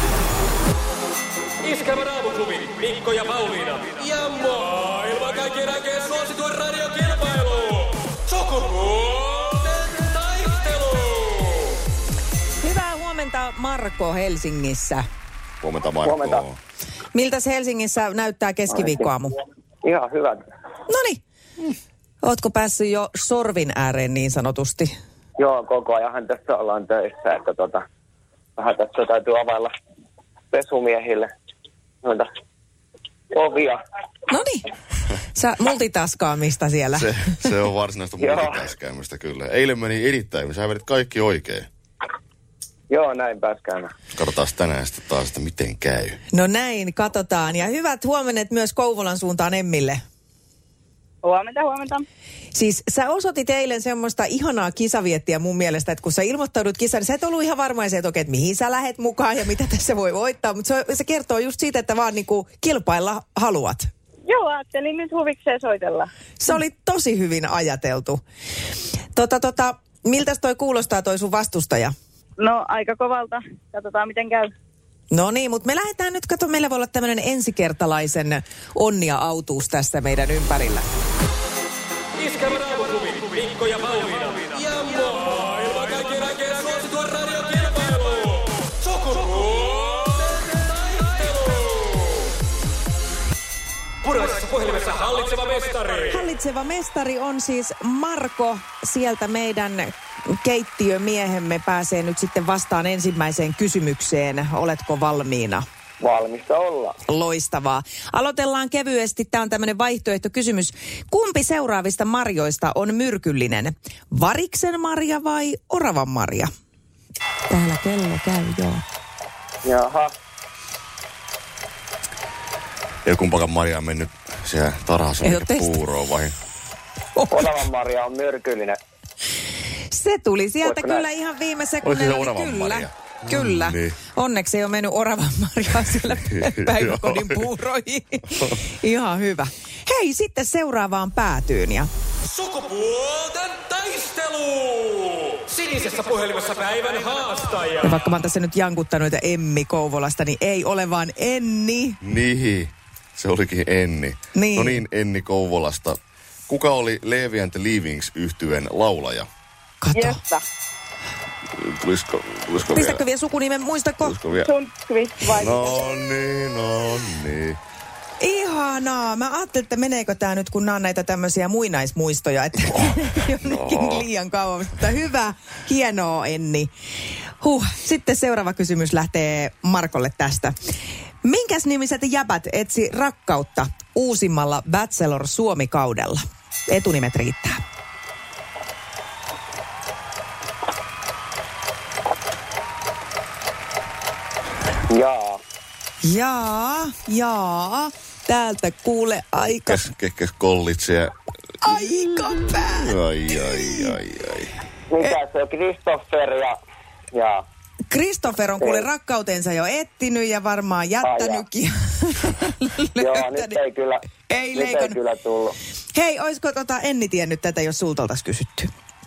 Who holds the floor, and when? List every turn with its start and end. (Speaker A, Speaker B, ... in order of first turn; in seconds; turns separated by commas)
Speaker A: 1.6-11.4, Speaker B: 12.6-15.0, Speaker C: 15.6-16.6, Speaker D: 16.1-16.4, Speaker B: 17.1-19.3, Speaker D: 19.8-20.4, Speaker B: 20.9-21.2, Speaker B: 22.2-24.9, Speaker D: 25.4-27.8, Speaker D: 28.6-29.7, Speaker D: 30.5-31.3, Speaker D: 33.3-33.8, Speaker B: 34.3-34.7, Speaker B: 35.3-37.1, Speaker C: 37.0-41.7, Speaker D: 38.2-38.5, Speaker D: 42.9-43.9, Speaker C: 44.1-46.2, Speaker B: 46.3-50.0, Speaker E: 51.2-52.0, Speaker B: 52.5-63.9, Speaker E: 64.3-66.1, Speaker B: 66.4-68.2, Speaker B: 69.2-71.9, Speaker E: 72.4-74.5, Speaker B: 75.1-80.9, Speaker A: 82.2-91.8, Speaker A: 94.0-96.1, Speaker B: 96.1-105.7, Speaker D: 106.0-106.8, Speaker B: 107.1-116.5, Speaker B: 117.5-118.8, Speaker D: 119.7-120.1, Speaker C: 123.0-126.3, Speaker B: 125.2-125.7, Speaker B: 127.2-127.6, Speaker D: 127.3-128.8, Speaker B: 129.9-141.9, Speaker D: 130.7-131.1, Speaker C: 131.8-134.0, Speaker C: 136.3-137.4, Speaker A: 142.4-147.8, Speaker B: 147.8-152.0, Speaker C: 152.0-159.3, Speaker B: 154.3-154.8, Speaker B: 159.8-160.2, Speaker E: 159.9-160.4, Speaker C: 161.6-163.0, Speaker B: 162.7-164.2, Speaker C: 164.0-164.5, Speaker E: 164.3-165.9, Speaker C: 165.3-167.6, Speaker B: 168.2-176.7, Speaker C: 173.4-174.1, Speaker B: 177.4-180.5, Speaker B: 181.2-187.6, Speaker D: 194.9-195.4, Speaker B: 196.0-199.8, Speaker C: 199.7-201.1, Speaker B: 201.6-203.9, Speaker C: 202.8-204.6, Speaker D: 205.0-206.6, Speaker D: 207.2-207.4, Speaker B: 207.9-213.6, Speaker D: 211.0-211.4, Speaker D: 213.0-214.0, Speaker B: 214.3-215.0, Speaker D: 214.5-215.6, Speaker B: 215.9-218.7